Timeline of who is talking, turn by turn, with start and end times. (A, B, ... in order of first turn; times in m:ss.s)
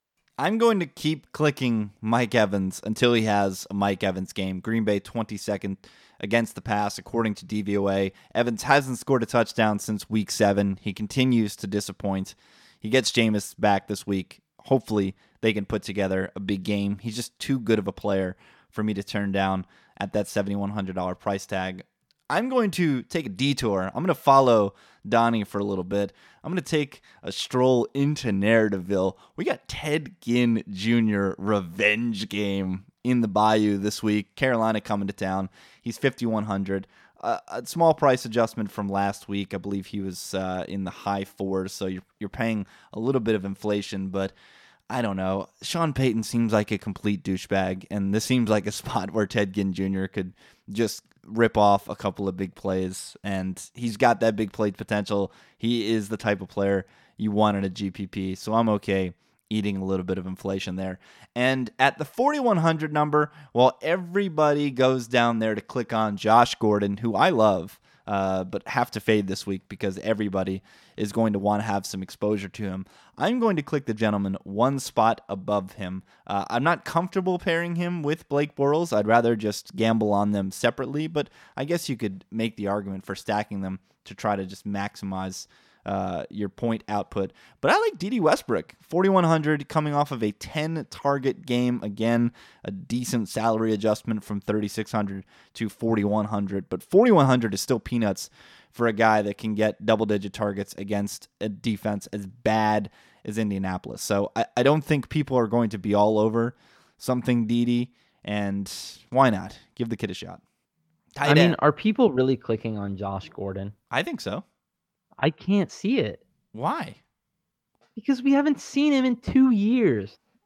0:00.4-0:44.3 A
0:44.9-1:50.4 A
1:51.2-1:51.6 A
1:51.2-1:53.7 B
1:53.9-1:54.4 A
1:55.2-1:56.2 B
1:56.5-1:57.0 A
1:58.0-2:00.2 B